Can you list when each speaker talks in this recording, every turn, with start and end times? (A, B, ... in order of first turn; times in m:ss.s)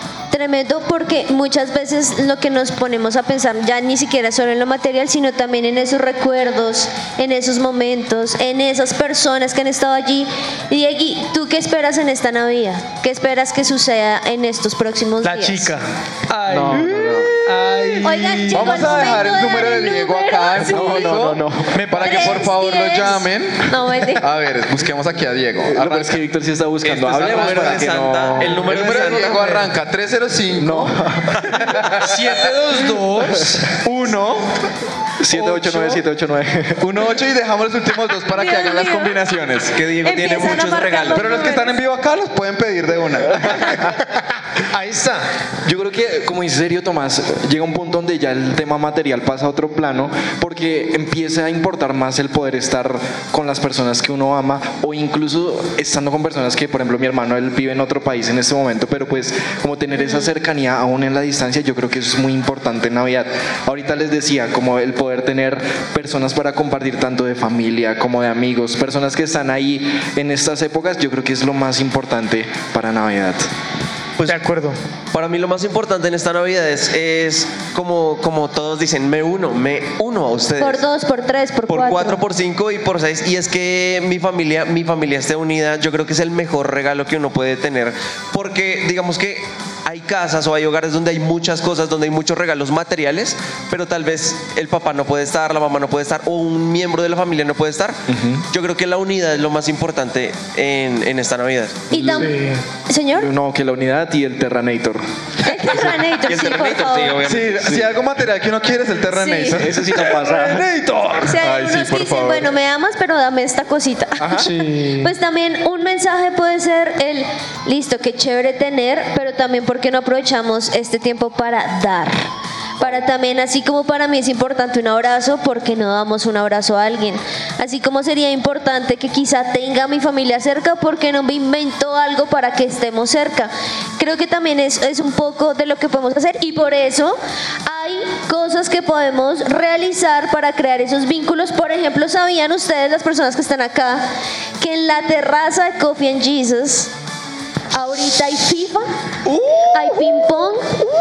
0:00.3-0:15.7 A
0:15.2-0:19.1 B
0:16.5-0:17.4 C
0:16.6-0:26.2 D
0:18.0-0:21.2 A
0:20.6-0:21.8 C
0:21.7-0:22.4 B
0:22.0-0:24.3 A
0:25.6-0:29.6 C
0:26.8-0:29.6 E
0:27.1-0:27.9 D
0:28.5-0:30.9 D
0:30.6-0:31.8 C
0:31.5-0:32.4 D
0:32.0-0:33.6 B
0:33.8-0:34.5 D
0:35.2-0:36.9 C
0:35.3-0:36.0 B
0:36.8-0:39.8 D
0:38.3-0:39.2 A
0:39.7-0:41.2 E
0:40.0-0:41.8 A
0:41.1-0:43.8 D
0:44.7-0:45.3 B
0:45.6-1:13.5 C
1:14.2-1:14.8 B
1:15.1-1:20.8 E
1:20.6-1:22.2 A
1:21.7-1:41.8 E
1:38.1-1:38.4 C
1:41.9-1:42.3 A
1:41.9-1:42.4 C
1:42.2-1:42.5 B
1:42.9-1:43.3 A
1:43.2-1:45.0 C
1:45.4-1:47.2 A
1:46.2-1:47.8 E
1:47.2-1:52.5 D
1:49.1-1:49.6 A
1:49.5-1:50.6 C
1:51.2-2:02.2 A
1:54.2-1:54.5 C
1:54.4-1:55.1 B
2:02.8-2:24.1 A
2:24.6-2:26.9 A
2:27.7-2:28.9 A
2:29.3-2:30.0 B
2:29.7-2:30.8 A